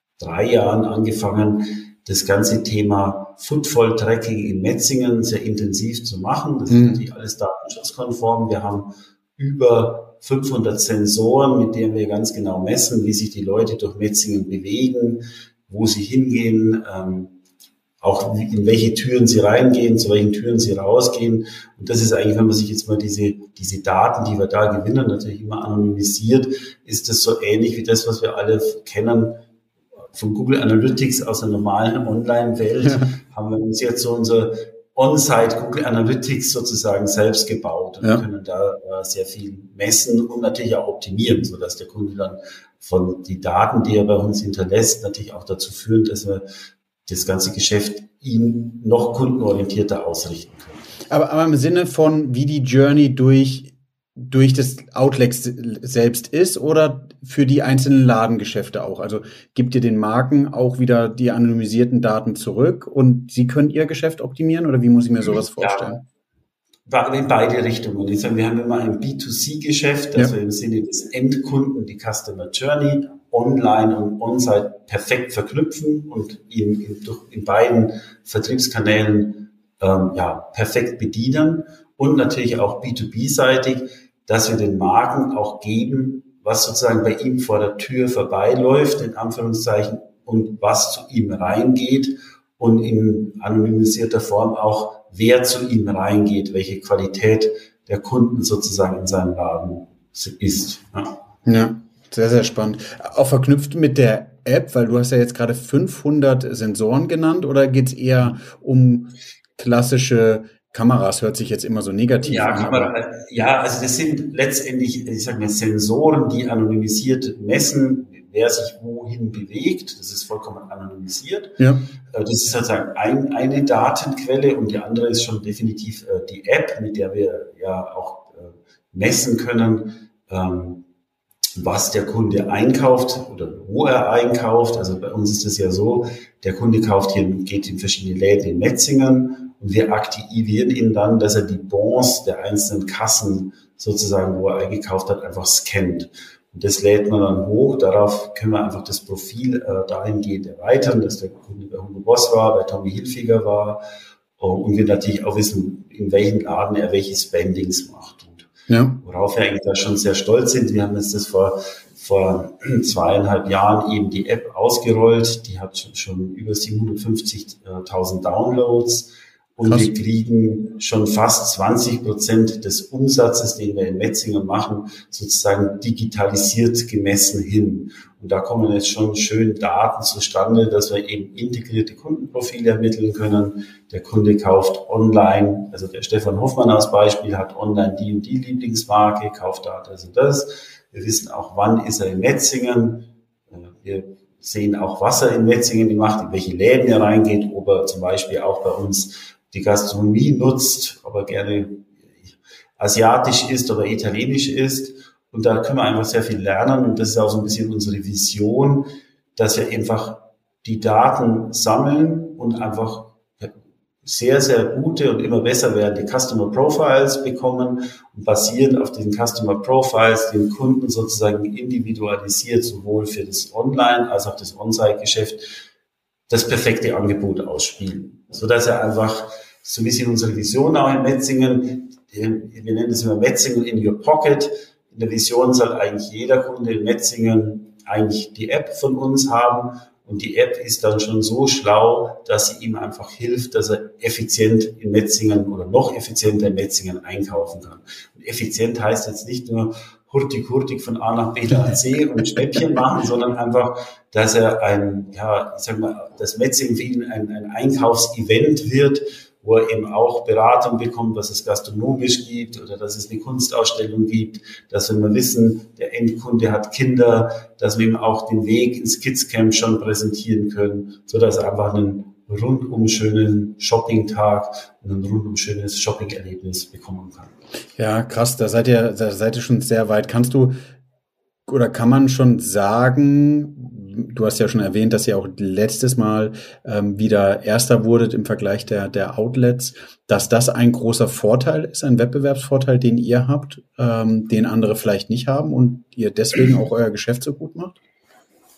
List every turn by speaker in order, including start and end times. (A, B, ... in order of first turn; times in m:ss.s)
0:00.2-0:17.4 A
0:06.7-0:07.0 B
0:18.0-0:29.4 A
0:30.1-0:46.4 A
0:32.8-0:33.1 B
0:47.1-0:50.8 A
0:51.1-1:06.0 B
1:05.3-1:06.0 A
1:06.9-1:41.1 A
1:41.5-1:52.9 B
1:52.2-2:10.8 A
2:01.6-2:01.9 B
2:11.6-2:33.8 A
2:34.4-2:38.5 A
2:38.7-2:39.0 B
2:39.0-3:21.9 A
3:22.8-3:45.5 A
3:46.3-4:37.3 A
4:37.8-4:40.6 B
4:41.5-4:57.8 B